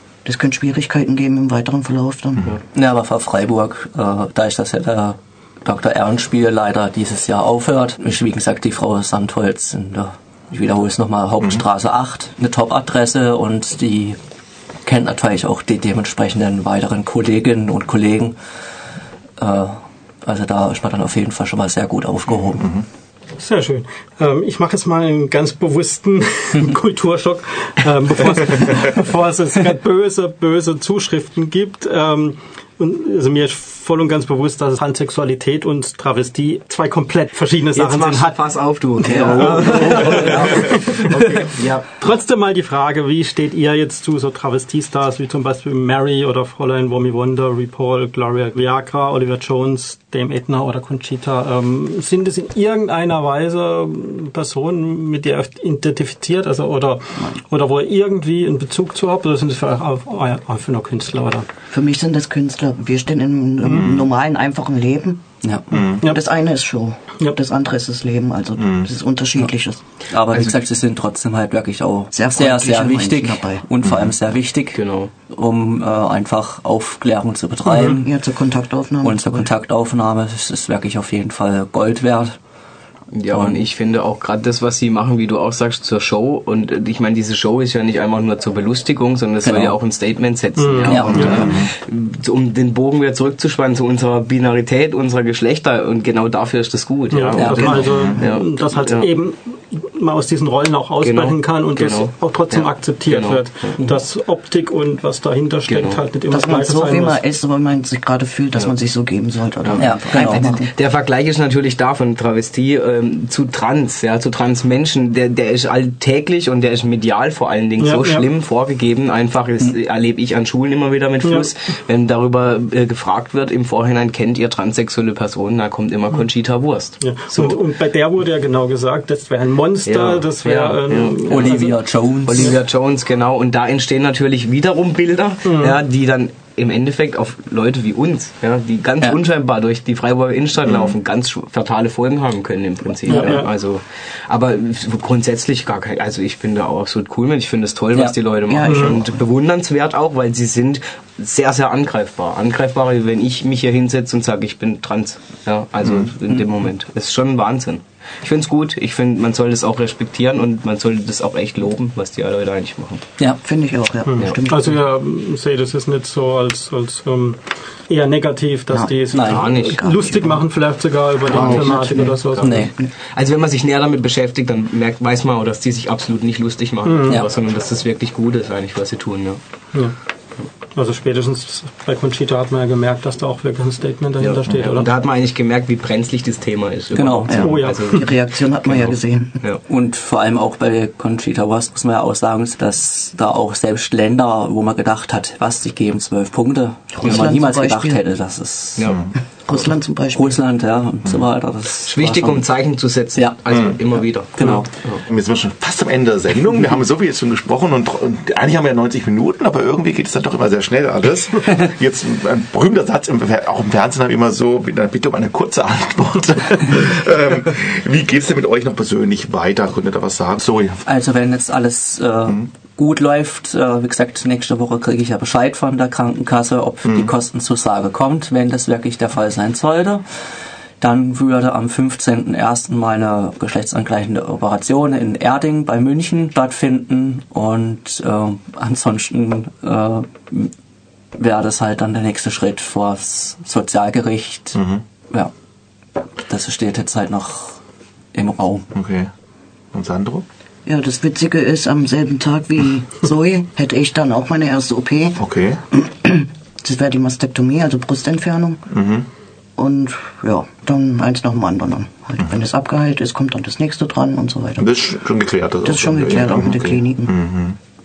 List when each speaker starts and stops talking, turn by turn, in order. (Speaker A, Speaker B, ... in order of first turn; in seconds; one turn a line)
Speaker A: 0.2-2.5
Speaker B: 2.8-14.2
Speaker B: 14.8-18.4
Speaker B: 19.4-22.7
Speaker C: 22.5-22.9
Speaker D: 23.4-38.4
Speaker E: 37.7-42.0
Speaker D: 39.0-41.5
Speaker D: 42.0-61.5
Speaker A: 61.7-65.2
Speaker C: 63.7-64.1
Speaker B: 65.4-65.7
Speaker C: 65.7-66.1
Speaker D: 65.7-66.2
Speaker A: 66.0-69.8
Speaker C: 68.6-68.9
Speaker B: 70.1-78.1
Speaker A: 72.1-73.6
Speaker C: 73.8-74.1
Speaker E: 74.8-75.1
Speaker D: 77.7-78.0
Speaker A: 77.8-79.5
Speaker B: 79.0-82.4
Speaker E: 83.1-99.1
Speaker B: 83.3-83.6
Speaker B: 89.4-89.8
Speaker D: 90.6-91.4
Speaker B: 90.9-91.4
Speaker C: 91.1-91.7
Speaker D: 97.1-107.2
Speaker B: 97.4-97.6
Speaker A: 97.5-98.2
Speaker E: 101.0-104.0
Speaker E: 105.7-106.0
Speaker A: 106.3-110.7
Speaker E: 109.6-127.6
Speaker B: 109.8-110.5
Speaker D: 117.8-118.3
Speaker D: 121.2-121.5
Speaker D: 127.0-132.5
Speaker E: 129.9-131.5
Speaker B: 131.3-132.6
Speaker E: 132.3-163.1
Speaker D: 135.4-135.8
Speaker C: 140.7-140.9
Speaker D: 143.1-143.5
Speaker A: 148.5-149.2
Speaker D: 148.6-149.0
Speaker A: 163.4-164.8
Speaker D: 164.1-172.7
Speaker A: 168.7-170.4
Speaker B: 169.1-169.4
Speaker E: 169.3-169.8
Speaker A: 171.3-172.9
Speaker E: 171.3-172.4
Speaker B: 172.4-172.7
Speaker E: 173.1-179.4
Speaker D: 176.9-177.2
Speaker D: 180.8-184.9
Speaker E: 184.2-188.1
Speaker B: 186.9-187.4
Speaker A: 187.3-189.4
Speaker D: 187.4-188.1
Speaker B: 189.7-199.0
Speaker A: 197.0-198.0
Speaker E: 198.8-199.0
Speaker A: 199.5-200.3
Speaker B: 200.1-202.5
Speaker E: 201.9-205.0
Speaker B: 204.4-204.7
Speaker C: 205.1-220.8
Speaker B: 220.8-230.0
Speaker C: 226.8-227.1
Speaker B: 230.8-240.5
Speaker B: 241.2-245.3
Speaker C: 244.6-244.8
Speaker B: 246.3-247.6
Speaker B: 248.1-248.7
Speaker C: 248.7-249.1
Speaker C: 249.7-250.2
Speaker A: 250.7-255.2
Speaker C: 255.2-255.6
Speaker A: 255.7-258.7
Speaker C: 258.7-259.1
Speaker A: 259.6-264.7
Speaker C: 264.6-267.6
Speaker A: 265.6-267.1